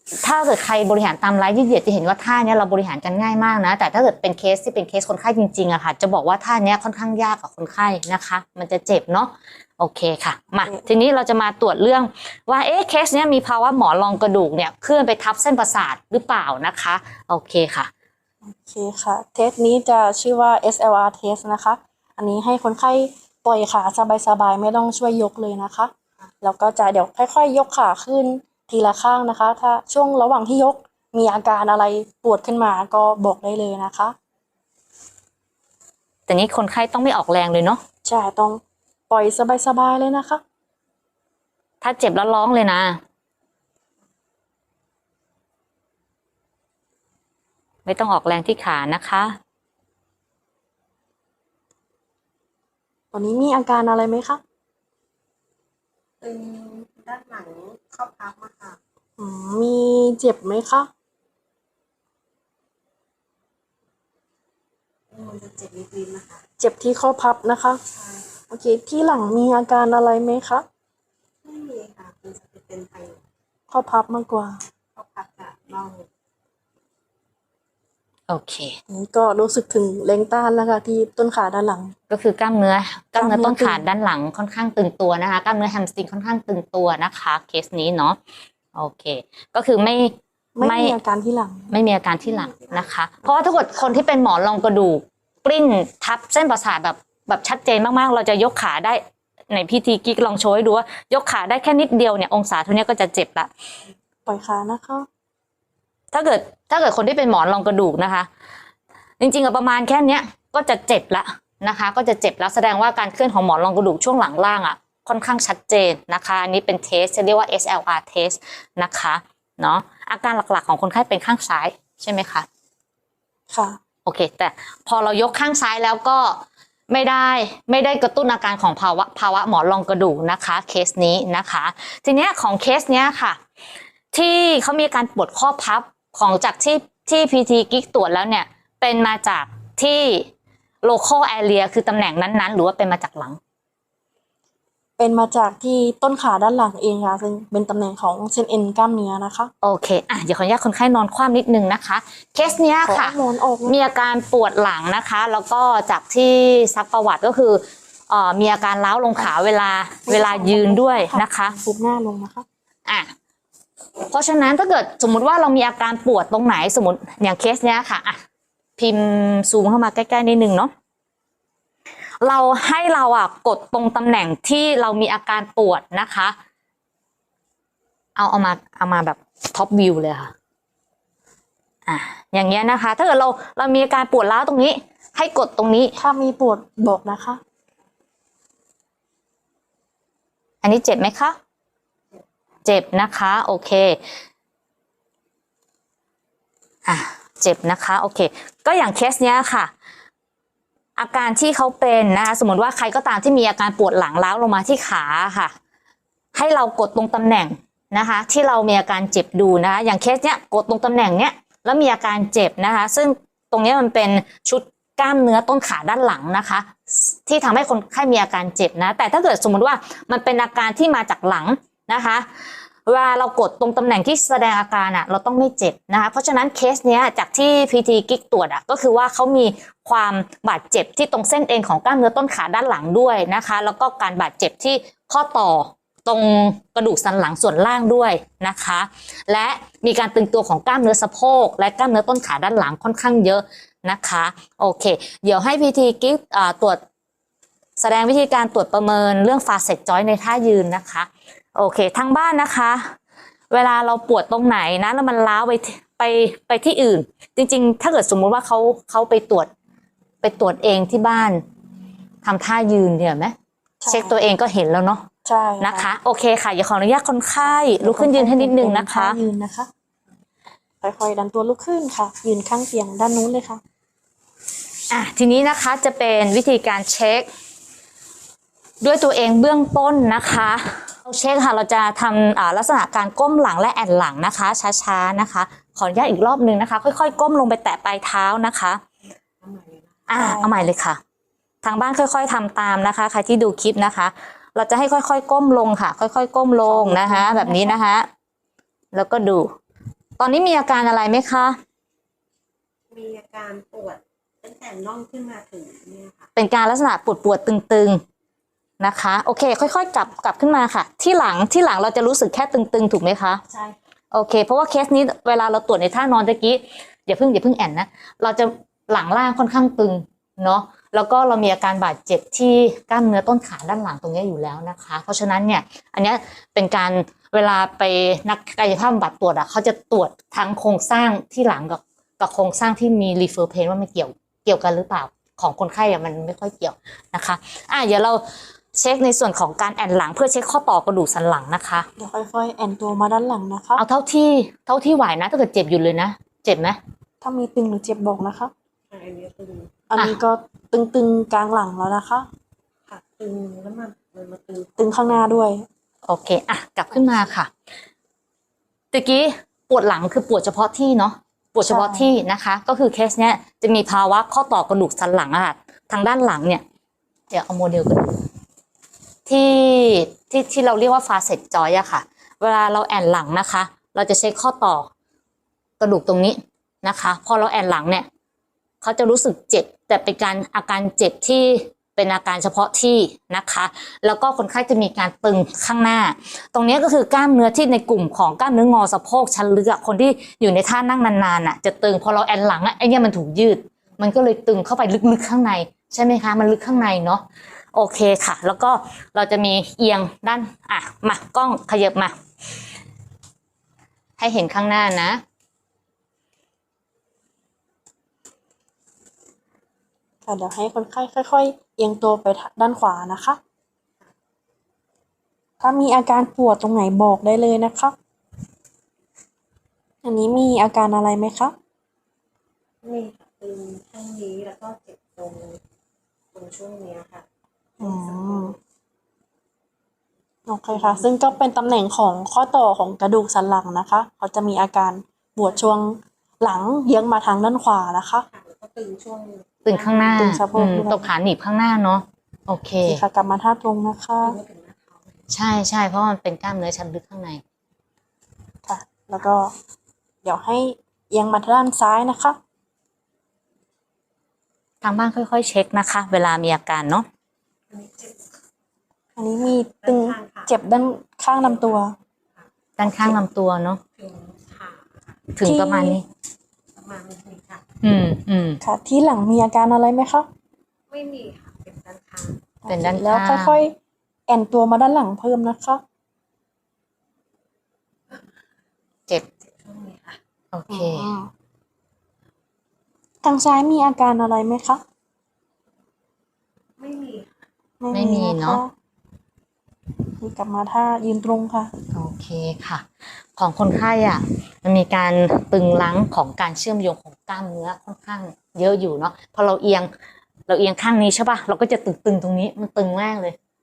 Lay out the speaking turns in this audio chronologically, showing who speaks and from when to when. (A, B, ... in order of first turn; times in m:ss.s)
0:00.2-0:17.9 A
0:18.4-0:34.1 B
0:36.3-0:37.8 A
0:38.0-0:40.4 B
0:41.8-0:43.0 A
0:47.8-0:49.4 A
0:53.1-0:54.4 B
0:56.2-0:58.8 C
0:59.2-1:00.9 B
1:05.1-1:06.4 C
1:06.6-1:07.8 B
1:07.9-1:08.3 C
1:08.5-1:10.6 B
1:11.4-1:13.2 C
1:13.7-1:14.5 B
1:15.0-1:16.0 C
1:18.3-1:18.8 A
1:18.9-1:21.9 B
1:22.1-1:28.2 A
1:23.2-1:23.8 B
1:28.7-1:30.9 A
1:30.5-1:31.7 B
1:31.7-1:43.5 A
1:44.2-1:45.1 B
1:46.1-1:48.3 A
1:49.2-2:02.4 A
2:03.5-2:03.8 B
2:04.0-2:13.4 A
2:14.1-2:20.3 A
2:20.8-2:23.4 A
2:25.0-2:29.5 B
2:29.6-2:41.6 A
2:32.8-2:33.8 B
2:40.0-2:42.4 B
2:42.9-2:43.1 A
2:44.1-2:48.2 A
2:48.8-2:50.7 A
2:52.2-2:56.3 A
2:58.2-3:00.3 A
3:01.8-3:06.0 A
3:06.0-3:07.4 B
3:10.6-3:11.4 A
3:12.6-3:14.0 A
3:16.8-3:19.7 A
3:21.0-3:25.5 A
3:26.3-3:42.3 A
3:42.8-4:06.8 A
4:07.8-4:12.9 A
4:13.5-4:19.5 A
4:20.2-4:21.4 A
4:22.2-4:23.3 A
4:23.8-4:24.2 B
4:23.9-4:25.0 A
4:25.2-4:25.9 B
4:25.6-4:29.2 A
4:27.4-4:29.7 B
4:30.8-4:33.6 B
4:34.9-4:37.3 A
4:38.8-4:48.8 A
4:49.4-4:50.1 C
4:50.1-4:51.0 A
4:50.2-4:50.6 B
4:51.6-4:58.1 A
4:56.6-4:57.8 B
4:58.9-4:59.5 A
5:00.2-5:01.6 A
5:02.9-5:06.2 C
5:06.3-5:08.0 A
5:08.8-5:13.4 A
5:14.1-5:38.2 A
5:38.7-5:41.9 A
5:42.0-5:43.8 B
5:43.8-5:46.8 A
5:47.2-5:48.5 B
5:48.9-5:49.7 C
5:49.9-5:52.3 B
5:52.9-5:55.2 C
5:54.8-5:55.6 B
5:56.0-5:57.5 A
5:58.9-6:06.6 A
6:01.6-6:02.1 B
6:07.3-6:08.2 A
6:09.3-6:14.9 A
6:15.8-6:18.1 A
6:18.8-6:42.1 A
6:44.2-6:45.2 A
6:50.2-6:53.4 B
6:55.6-6:58.0 B
7:00.0-7:01.5 B
7:02.8-7:05.6 C
7:06.3-7:07.2 C
7:07.8-7:08.6 B
7:07.8-7:08.6 C
7:10.5-7:18.3 B
7:10.7-7:11.1 C
7:18.3-7:20.3 C
7:19.6-7:23.0 A
7:20.1-7:21.1 B
7:22.8-7:24.4 B
7:24.2-7:25.0 C
7:25.3-7:27.4 A
7:28.6-7:29.5 B
7:30.2-7:32.4 B
7:34.8-7:37.1 A
7:37.7-7:38.2 C
7:39.2-7:41.9 B
7:39.8-7:40.5 C
7:41.3-7:41.8 C
7:42.4-7:43.2 C
7:42.8-7:43.8 A
7:44.0-7:45.2 C
7:45.3-7:46.0 A
7:45.4-7:46.0 B
7:46.8-7:47.6 C
7:47.8-7:48.6 A
7:48.6-7:50.3 B
7:50.9-7:52.4 C
7:52.6-7:53.7 B
7:52.7-7:53.6 A
7:54.3-7:55.8 B
7:59.4-8:00.2 C
8:00.5-8:01.1 A
8:00.7-8:01.3 B
8:03.2-8:04.8 B
8:06.8-8:07.3 C
8:07.8-8:08.7 B
8:07.9-8:08.6 A
8:10.2-8:11.7 B
8:11.9-8:19.9 A
8:20.5-8:23.4 A